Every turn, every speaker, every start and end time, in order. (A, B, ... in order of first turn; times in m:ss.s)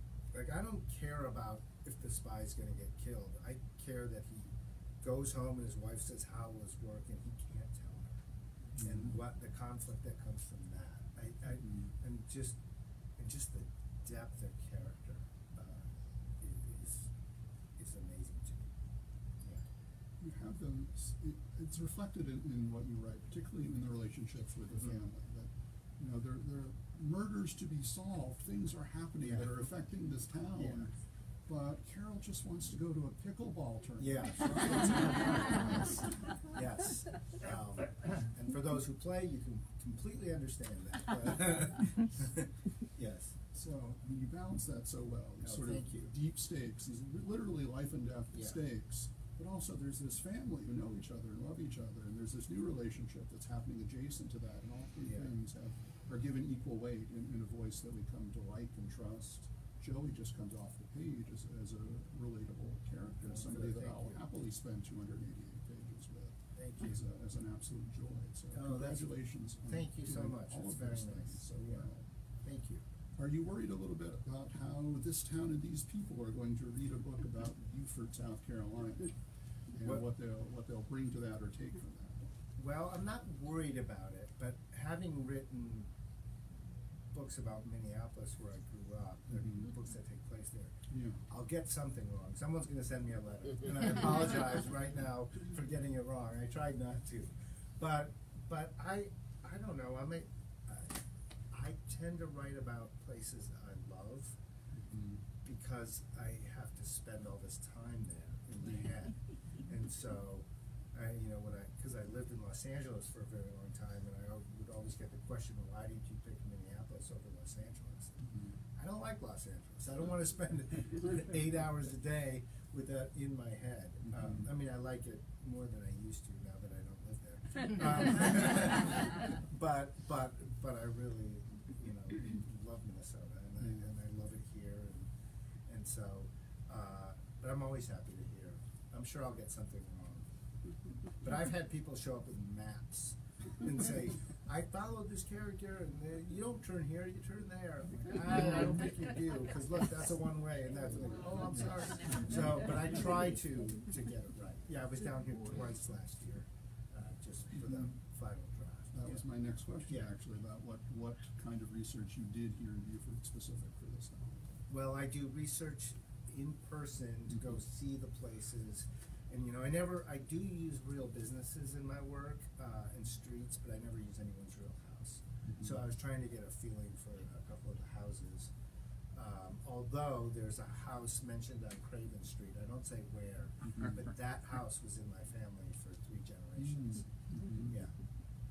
0:00.3-0:08.2 A
0:08.8-0:09.2 B
0:08.8-0:12.6 A
0:11.6-0:11.9 B
0:13.2-0:15.9 A
0:16.4-0:17.1 A
0:17.8-0:18.7 A
0:20.2-0:30.9 B
0:24.7-0:25.0 A
0:29.2-0:29.5 A
0:30.6-0:30.9 A
0:31.5-0:36.3 B
0:34.0-0:35.6 A
0:36.5-0:43.4 A
0:43.5-1:12.1 B
0:45.4-0:46.1 A
0:48.3-0:48.6 A
0:55.0-0:55.3 A
1:03.2-1:04.2 A
1:06.6-1:06.9 A
1:08.5-1:11.9 A
1:12.4-1:12.8 A
1:13.2-1:22.3 B
1:22.6-1:25.9 A
1:27.1-1:30.8 A
1:29.3-1:29.7 B
1:30.9-1:31.2 B
1:31.3-1:40.9 A
1:41.5-1:44.4 A
1:44.7-1:45.2 B
1:45.4-1:58.2 A
1:48.6-1:48.9 B
1:58.2-1:58.6 B
1:58.8-2:15.1 A
2:04.1-2:04.5 B
2:13.6-2:13.9 B
2:15.7-2:20.3 A
2:21.2-2:39.2 A
2:31.5-2:32.6 B
2:37.6-2:38.0 B
2:38.9-2:44.5 B
2:44.7-2:58.5 A
2:55.4-2:55.8 B
2:59.1-3:07.1 A
3:03.6-3:04.0 B
3:06.6-3:07.8 B
3:07.6-3:07.9 A